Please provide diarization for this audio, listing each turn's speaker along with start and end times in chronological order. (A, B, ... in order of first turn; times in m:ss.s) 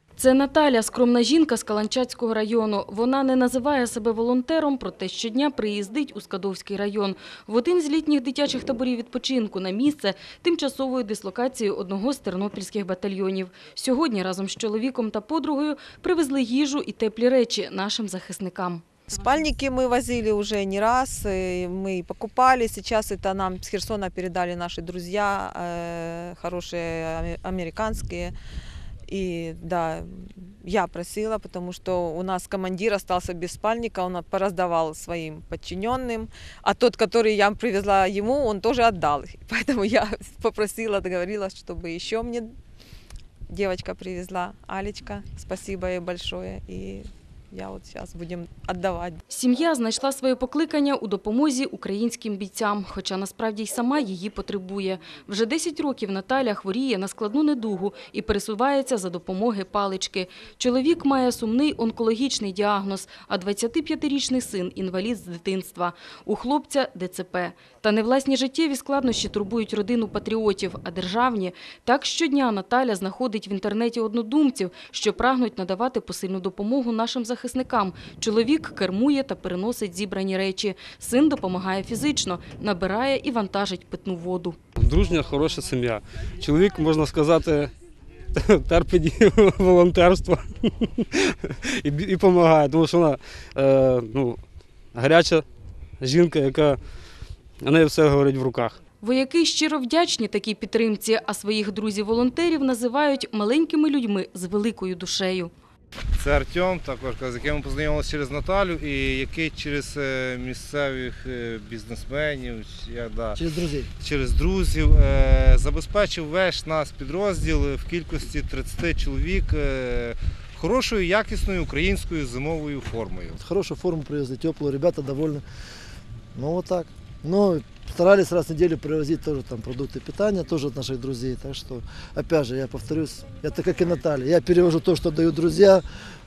0:00.2-0:18.8 A
0:19.1-0:28.3 B
0:29.1-0:42.5 B
0:43.5-0:49.2 B
0:49.3-1:24.6 A
1:24.8-1:27.7 C
1:28.3-1:34.4 C
1:34.9-1:35.4 C
1:36.0-1:36.8 C
1:37.6-1:38.8 C
1:39.0-1:45.5 A
1:46.2-1:53.4 D
1:53.4-1:53.9 E
1:54.0-2:03.4 D
2:03.4-2:05.4 E
2:06.3-2:15.8 E